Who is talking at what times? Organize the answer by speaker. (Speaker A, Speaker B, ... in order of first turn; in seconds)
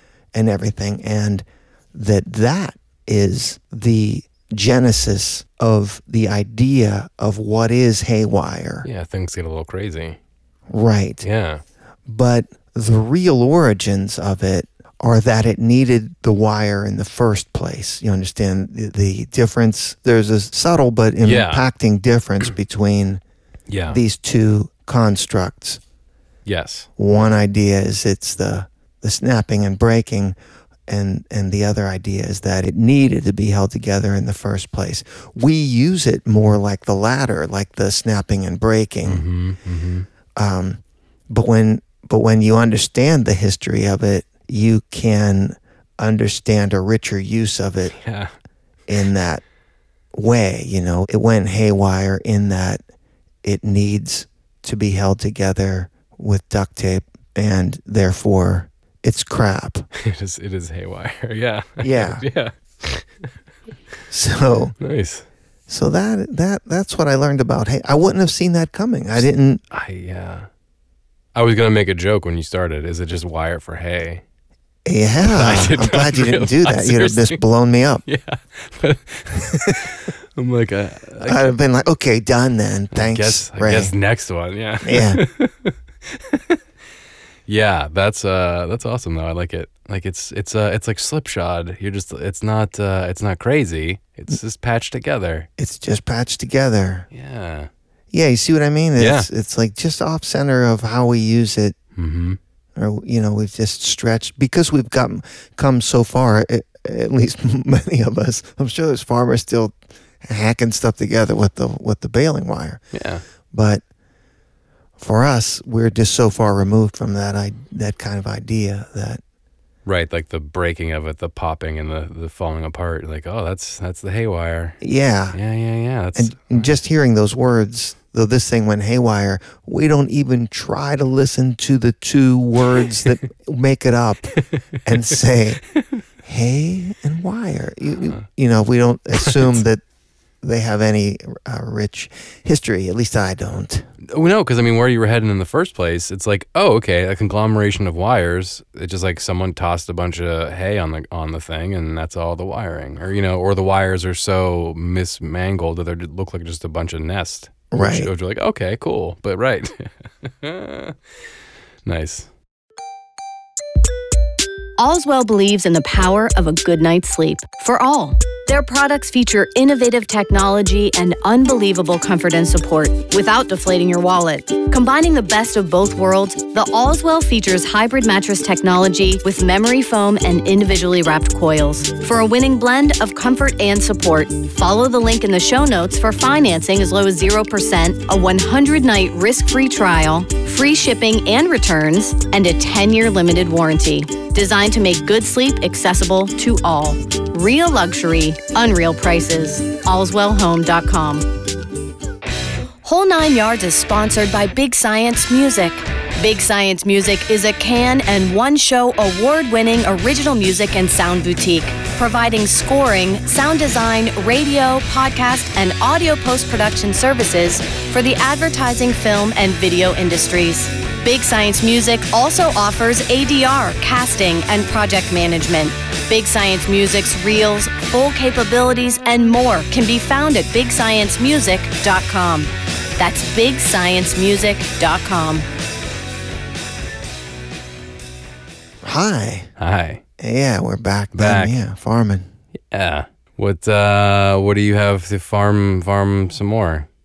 Speaker A: 0.3-8.9, 10.7-11.2, 12.1-23.2, 23.9-25.8, 27.0-30.3, 30.9-39.2, 40.4-47.9, 48.9-49.4, 50.1-52.8, 53.4-59.9, 61.8-62.2, 64.1-64.8, 65.7-69.6, 74.8-78.0, 81.2-83.9, 84.8-85.2, 95.6-97.1, 98.1-101.7, 102.8-112.8, 113.5-113.8, 115.0-119.2, 124.8-125.4, 126.1-135.6, 136.2-139.8, 140.4-143.8, 157.7-158.1, 238.8-239.5, 240.2-242.3
Speaker B: 8.8-10.2, 11.2-11.6, 21.2-21.7, 23.7-24.0, 26.4-26.9, 39.0-40.1, 47.9-48.3, 60.0-63.3, 64.8-65.2, 69.7-70.5, 71.3-74.2, 75.2-77.4, 78.0-81.5, 82.9-86.6, 87.5-95.5, 97.1-97.7, 99.0-99.3, 102.0-102.4, 112.9-113.2, 119.8-124.8, 125.3-126.7, 134.4-134.6, 135.8-136.0, 139.1-139.6, 144.0-161.0, 161.8-162.3, 239.6-240.0, 241.1-241.6, 242.7-246.9
Speaker C: 164.8-201.3, 202.8-235.4